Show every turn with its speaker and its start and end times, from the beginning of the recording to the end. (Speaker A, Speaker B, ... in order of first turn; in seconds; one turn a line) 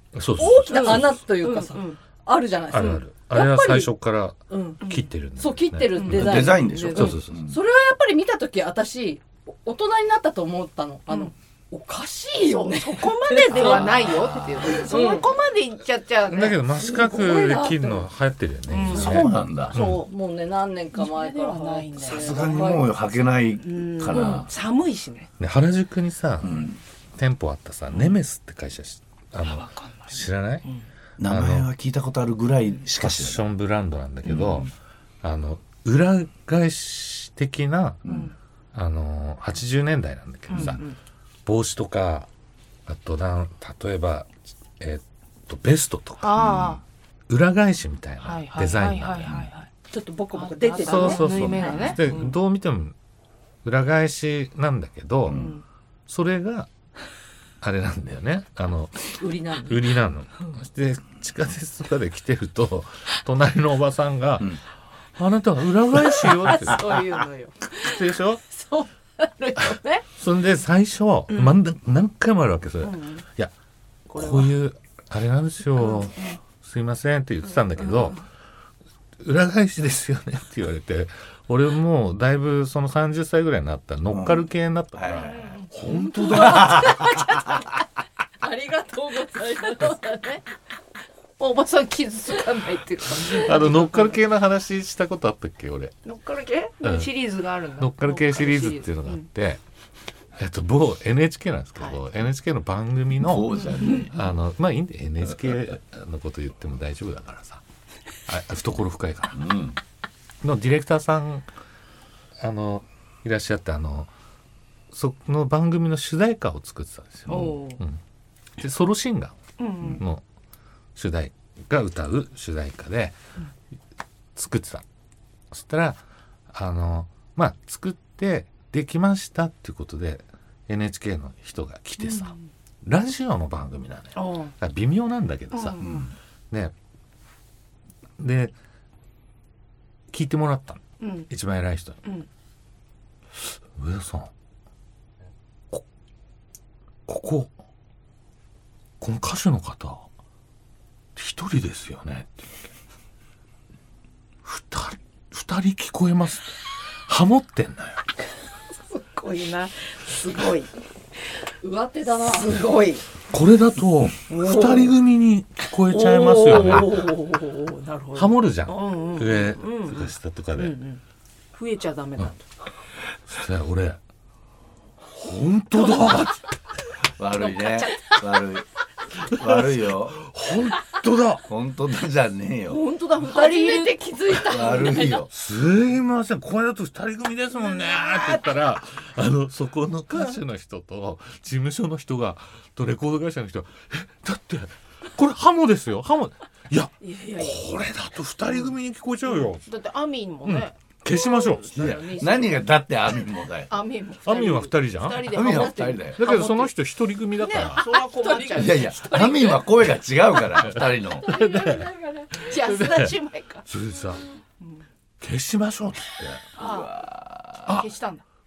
Speaker A: 0.1-1.2
Speaker B: 0.4-3.9
Speaker C: 0.7-2.0
Speaker A: 2.7-6.4
Speaker B: 4.5-4.8
Speaker C: 4.8-5.1
Speaker B: 5.4-15.2
Speaker C: 5.9-7.1
Speaker D: 6.1-7.6
Speaker A: 6.9-7.4
Speaker C: 11.1-11.3
Speaker C: 12.4-16.6
Speaker A: 13.6-15.2
Speaker A: 16.3-20.0
Speaker B: 16.7-18.1
Speaker C: 18.7-19.9
Speaker D: 18.9-19.8
Speaker B: 19.7-22.9
Speaker C: 20.9-22.8
Speaker D: 22.0-24.5
Speaker C: 23.6-25.3
Speaker A: 25.4-30.6
Speaker D: 26.4-26.8
Speaker C: 27.9-28.2
Speaker C: 29.4-30.8
Speaker D: 31.2-33.4
Speaker A: 31.2-31.7
Speaker A: 33.0-34.7
Speaker C: 34.3-34.6
Speaker D: 34.3-34.6
Speaker A: 35.2-38.0
Speaker D: 38.0-38.3
Speaker C: 38.0-38.3
Speaker A: 38.7-40.8
Speaker C: 40.5-41.0
Speaker A: 41.4-42.3
Speaker A: 42.9-46.5
Speaker C: 46.2-46.8
Speaker D: 46.4-46.8
Speaker A: 47.3-49.4
Speaker C: 48.2-49.7
Speaker B: 49.9-52.0
Speaker C: 50.3-52.4
Speaker A: 50.8-52.9
Speaker A: 53.6-55.5
Speaker D: 55.3-55.5
Speaker C: 55.3-55.6
Speaker A: 56.1-56.7
Speaker A: 57.6-64.6
Speaker B: 59.2-59.9
Speaker A: 65.2-66.8
Speaker C: 66.2-70.0
Speaker A: 67.8-68.4
Speaker A: 69.6-73.5
Speaker C: 71.3-71.6
Speaker C: 72.8-73.2
Speaker C: 74.1-74.5
Speaker A: 74.1-78.2
Speaker C: 75.8-76.4
Speaker C: 77.8-78.2
Speaker A: 79.2-86.8
Speaker D: 84.1-85.3
Speaker C: 85.2-87.1
Speaker B: 86.0-87.8
Speaker D: 86.2-87.4
Speaker B: 88.4-90.4
Speaker C: 91.4-94.2
Speaker A: 93.2-95.9
Speaker C: 96.0-99.2
Speaker A: 96.8-97.1
Speaker A: 97.8-99.6
Speaker A: 100.4-103.5
Speaker D: 103.2-104.3
Speaker C: 103.5-104.1
Speaker A: 104.1-107.6
Speaker A: 108.3-109.5
Speaker D: 109.3-109.8
Speaker A: 110.4-111.5
Speaker A: 112.4-114.1
Speaker A: 114.9-118.0
Speaker D: 117.3-117.6
Speaker C: 117.3-117.8
Speaker A: 118.6-119.4
Speaker C: 119.6-120.0
Speaker A: 120.0-120.2
Speaker A: 120.9-123.2
Speaker A: 124.3-124.8
Speaker A: 125.5-135.9
Speaker C: 132.0-132.5
Speaker C: 134.1-134.6
Speaker C: 135.5-136.0
Speaker D: 135.8-136.1
Speaker A: 138.2-138.5
Speaker A: 140.1-142.0
Speaker C: 141.0-141.3
Speaker A: 143.4-144.3
Speaker A: 147.1-147.5
Speaker A: 149.0-150.1
Speaker A: 151.2-152.7
Speaker A: 154.4-158.0
Speaker C: 158.9-160.7
Speaker B: 161.6-162.6
Speaker C: 162.1-163.0
Speaker A: 163.3-167.1
Speaker C: 164.3-164.9
Speaker C: 165.9-171.0
Speaker A: 168.1-170.8
Speaker C: 171.5-172.4
Speaker A: 173.3-174.0
Speaker A: 175.1-176.5
Speaker C: 175.9-176.3
Speaker D: 177.2-178.6
Speaker C: 177.3-178.5
Speaker D: 179.2-180.2
Speaker A: 179.2-181.4
Speaker D: 181.4-182.8
Speaker C: 182.7-185.1
Speaker B: 183.2-185.3
Speaker D: 184.4-185.3
Speaker A: 185.3-199.6
Speaker C: 187.6-188.4
Speaker C: 197.0-197.6
Speaker C: 198.5-198.7
Speaker C: 199.3-202.7
Speaker A: 200.4-202.0
Speaker D: 201.7-203.7
Speaker C: 203.7-206.7
Speaker A: 204.2-207.8
Speaker D: 205.3-206.2
Speaker B: 205.4-206.0
Speaker C: 207.4-209.0
Speaker B: 207.6-209.7
Speaker D: 208.5-211.3
Speaker B: 210.7-212.5
Speaker A: 211.3-211.9
Speaker C: 212.3-213.6
Speaker A: 212.4-214.2
Speaker C: 214.6-214.8
Speaker A: 215.2-216.4
Speaker C: 216.6-216.9
Speaker D: 216.6-217.7
Speaker C: 217.6-218.2